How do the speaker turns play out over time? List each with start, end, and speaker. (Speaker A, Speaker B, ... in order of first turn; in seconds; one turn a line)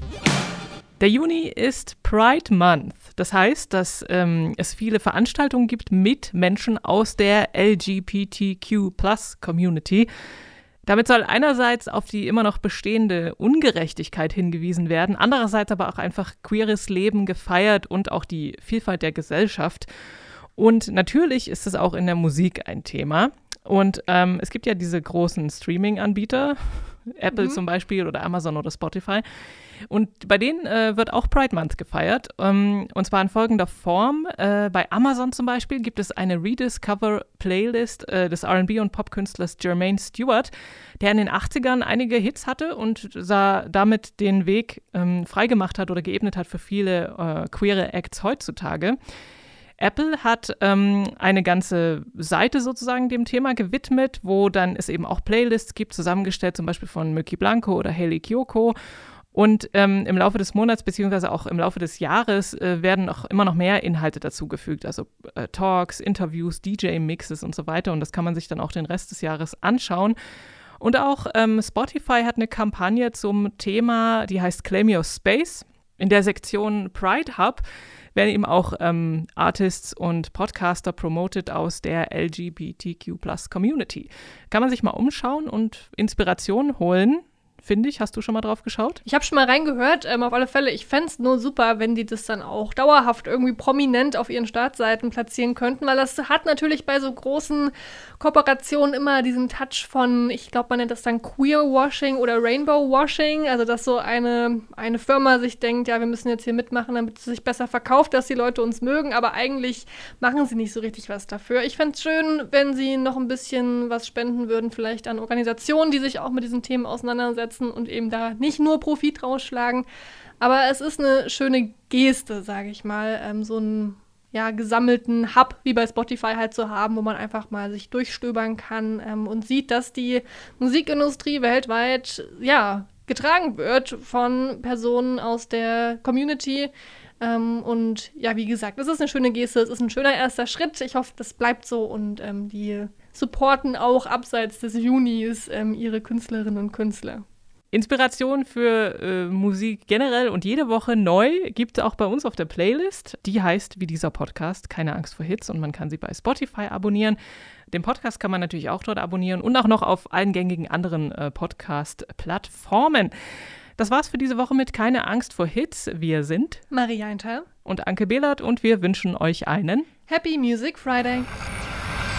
Speaker A: 1.0-10.1
Speaker A: 10.8-19.9
Speaker A: 20.6-29.2
Speaker B: 27.3-27.6
Speaker A: 29.9-49.0
Speaker A: 49.8-58.7
Speaker A: 59.3-70.2
Speaker A: 70.8-77.6
Speaker A: 78.1-89.0
Speaker B: 89.0-119.8
Speaker B: 120.4-147.2
Speaker A: 147.7-157.2
Speaker A: 157.7-163.1
Speaker A: 163.8-166.6
Speaker B: 166.7-167.4
Speaker A: 167.7-169.9
Speaker B: 170.1-171.3